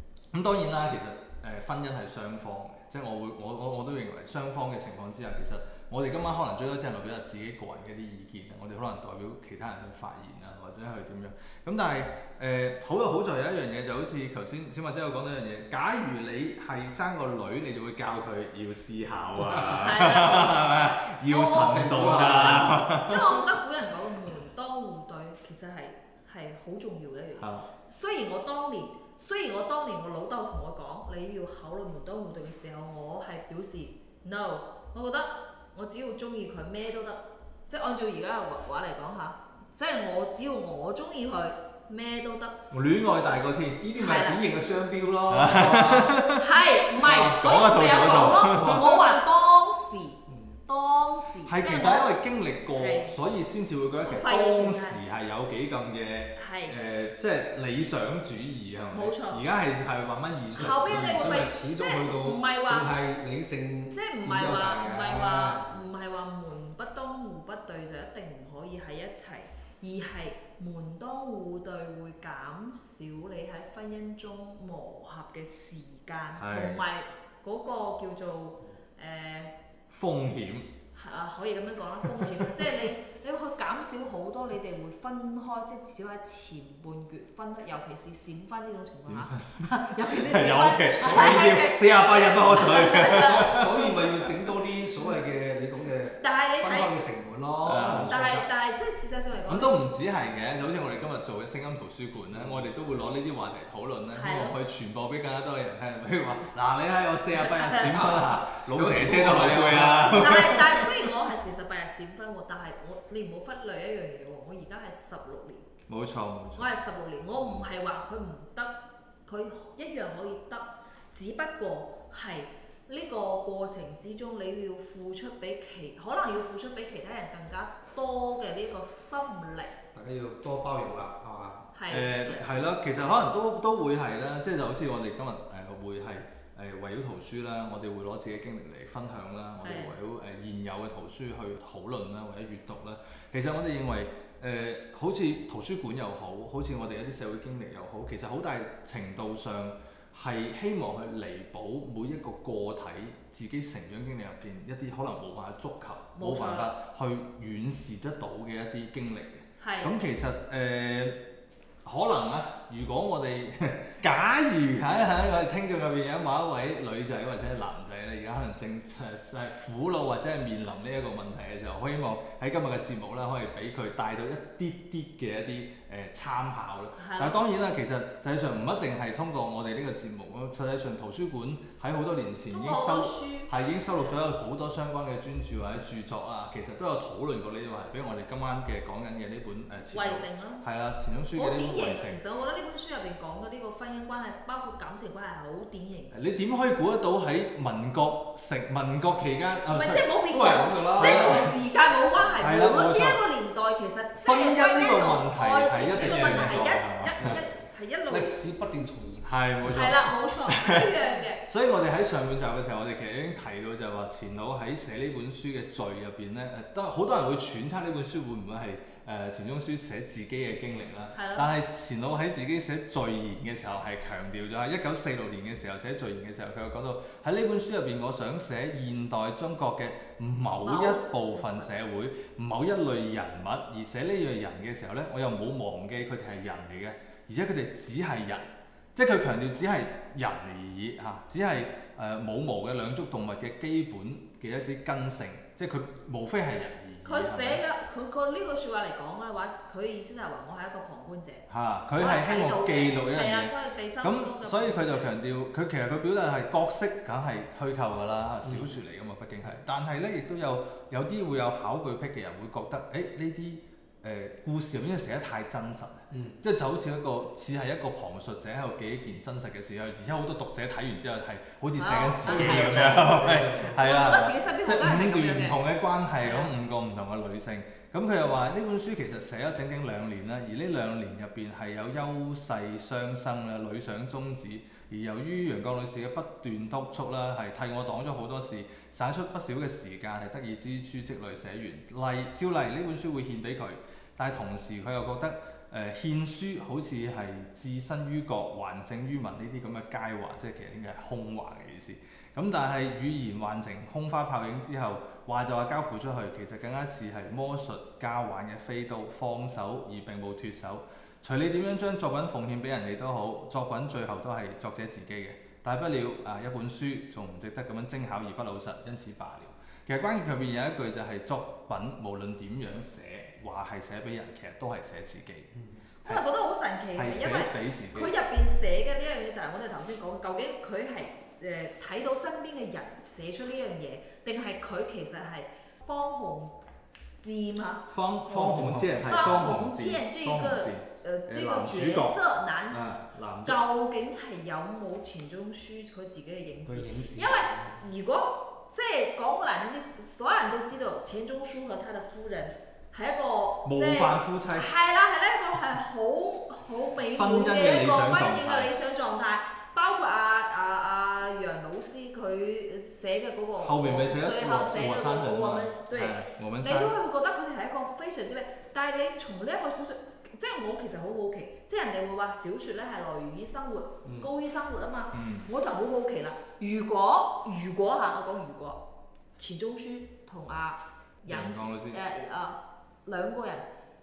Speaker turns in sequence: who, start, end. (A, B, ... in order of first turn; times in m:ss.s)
0:00.3-0:23.4 A
0:19.7-0:42.6 B
0:21.6-0:22.7 C
0:27.4-0:27.6 A
0:42.7-0:43.8 A
0:43.8-0:46.2 C
0:44.0-0:44.4 B
0:45.3-0:46.5 A
0:46.4-0:52.1 B
0:47.0-0:48.9 A
0:47.0-0:47.4 C
0:48.2-0:49.1 C
0:50.3-0:50.6 C
0:51.4-1:01.5 A
0:52.7-0:53.1 B
0:54.0-0:55.0 B
0:56.4-0:56.8 B
0:58.9-0:59.4 B
1:00.5-1:05.7 C
1:00.6-1:03.0 B
1:03.9-1:19.5 B
1:16.4-1:16.8 A
1:19.9-1:20.7 A
1:21.0-1:33.9 B
1:22.0-1:22.5 A
1:29.0-1:33.7 A
1:31.0-1:31.6 C
1:33.1-1:38.4 C
1:36.2-1:36.9 B
1:37.6-1:38.2 A
1:37.9-1:39.8 B
1:39.5-1:51.0 A
1:44.1-1:44.6 B
1:47.4-1:48.2 B
1:47.9-1:50.4 C
1:50.0-1:55.7 B
1:55.9-1:56.7 A
1:56.6-1:58.7 B
1:59.2-2:09.8 B
2:09.9-2:11.6 C
2:11.7-2:12.5 B
2:11.9-2:41.2 A
2:19.6-2:20.0 B
2:36.2-2:36.7 B
2:39.6-2:40.0 B
2:41.8-3:12.2 A
2:57.0-2:57.4 B
3:02.5-3:03.5 B
3:09.9-3:10.6 B
3:11.3-3:16.1 B
3:16.1-3:20.1 A
3:19.7-3:28.3 B
3:20.3-3:21.5 C
3:21.0-3:21.5 A
3:22.4-3:23.2 A
3:24.2-3:27.4 A
3:26.0-3:26.6 C
3:27.2-3:27.4 C
3:28.1-3:29.3 C
3:29.2-4:07.6 A
3:29.6-3:31.4 B
3:41.1-3:41.5 B
3:50.6-3:51.7 B
4:07.0-4:11.4 B
4:11.5-5:25.5 A
4:12.0-4:15.1 B
4:18.4-4:18.7 C
4:26.1-4:26.4 C
4:31.8-4:33.0 B
4:32.2-4:33.8 C
4:33.7-4:35.6 B
4:36.2-4:36.5 B
5:26.0-5:36.5 B
5:26.0-5:26.4 A
5:26.9-5:28.1 A
5:37.2-5:42.8 B
5:37.9-5:42.2 A
5:38.4-5:38.9 C
5:42.7-5:43.6 A
5:43.4-6:18.8 B
5:46.6-5:47.8 C
5:53.6-5:54.7 A
5:57.1-5:58.7 A
6:03.6-6:06.9 A
6:15.1-6:15.5 A
6:19.4-6:23.7 B
6:21.3-6:22.0 A